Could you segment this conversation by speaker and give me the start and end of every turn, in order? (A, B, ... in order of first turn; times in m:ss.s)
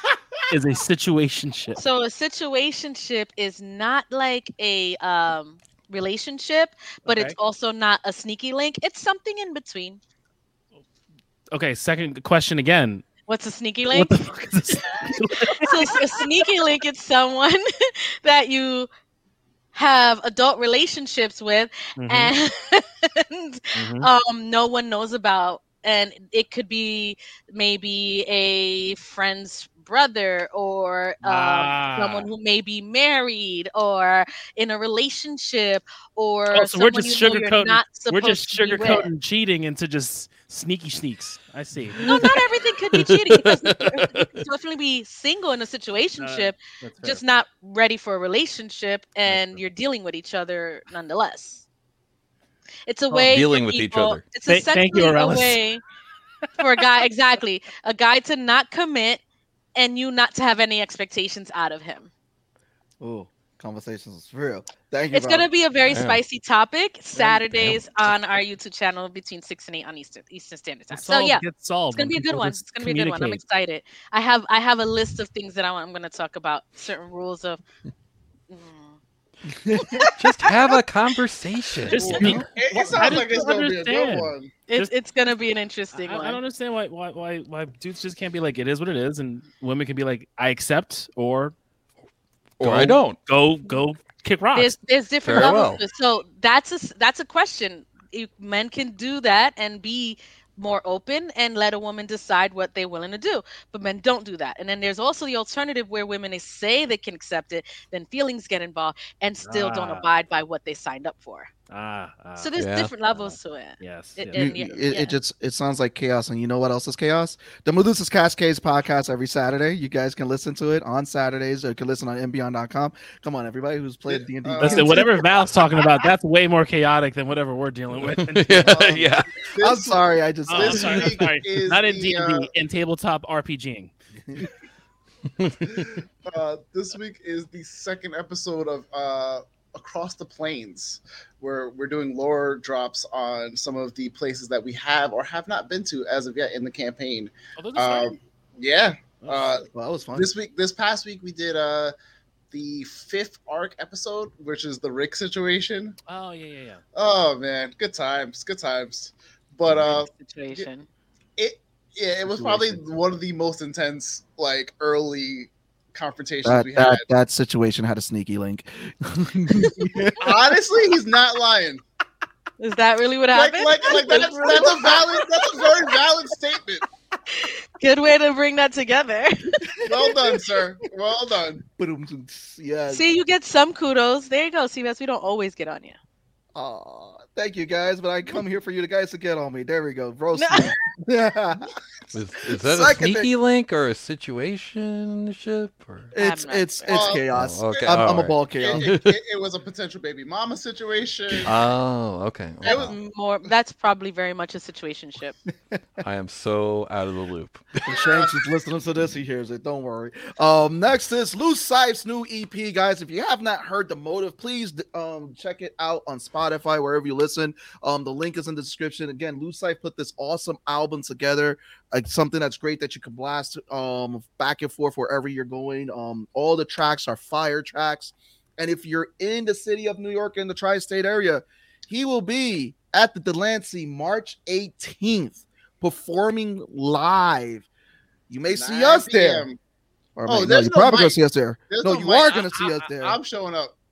0:00.5-0:01.8 A
0:01.7-0:10.0 B
0:07.0-0:07.4 A
0:11.5-0:13.0 A
0:13.3-0:14.2 B
0:13.9-0:16.5 A
0:14.9-0:18.9 B
0:19.7-0:39.1 B
0:22.0-0:22.3 A
0:23.8-0:24.1 A
0:31.2-0:32.3 A
0:36.5-0:42.4 A
0:42.0-0:51.6 B
0:43.0-0:43.9 C
0:46.2-0:47.2 A
0:49.2-0:49.6 A
0:52.9-0:55.8 B
0:53.3-0:54.2 C
0:54.4-0:55.6 A
0:56.6-0:59.2 B
0:59.8-1:02.1 B
1:03.0-1:05.5 D
1:05.1-1:17.6 B
1:05.9-1:06.2 C
1:07.2-1:07.8 A
1:10.9-1:13.4 A
1:18.5-1:19.0 B
1:19.5-1:20.1 D
1:19.8-1:20.2 B
1:20.2-1:22.3 C
1:21.8-1:24.9 A
1:21.9-1:24.5 E
1:24.7-1:26.4 B
1:25.9-1:31.5 A
1:32.6-1:33.2 C
1:32.6-1:34.8 A
1:34.5-1:51.5 B
1:35.2-1:35.8 C
1:49.4-1:50.1 A
1:51.7-1:54.5 A
1:52.4-1:55.1 B
1:52.6-1:52.9 C
1:54.3-2:05.2 D
2:04.1-2:05.3 E
2:04.6-2:09.0 A
2:08.0-2:09.3 C
2:08.6-2:12.5 E
2:09.6-2:11.2 D
2:10.5-2:13.9 A
2:16.2-2:31.9 E
2:27.6-2:28.1 A
2:29.2-2:29.6 A
2:29.6-2:30.3 D
2:32.5-2:36.0 E
2:36.1-2:36.8 A
2:36.9-2:40.7 E
2:39.8-2:40.9 B
2:41.4-2:47.0 E
2:42.3-2:42.8 D
2:46.4-2:50.4 D
2:50.2-2:51.8 E
2:52.6-2:55.1 B
2:53.3-2:56.8 E
2:54.0-2:54.7 D
2:57.3-2:59.8 B
2:59.8-3:01.6 E
3:01.8-3:03.0 D
3:02.9-3:06.0 B
3:06.5-3:11.7 D
3:10.4-3:10.7 B
3:12.1-3:16.1 C
3:12.5-3:13.3 D
3:16.1-3:18.9 D
3:16.2-3:17.0 B
3:16.9-3:21.5 E
3:17.3-3:19.1 C
3:21.4-3:22.9 C
3:22.6-3:23.0 E
3:22.7-3:25.4 B
3:26.0-3:27.8 C
3:27.8-3:57.7 D
3:27.9-3:28.3 E
3:58.3-3:59.5 D
3:58.5-3:59.6 E
4:00.2-4:03.2 D
4:00.3-4:01.2 E
4:01.7-4:03.7 E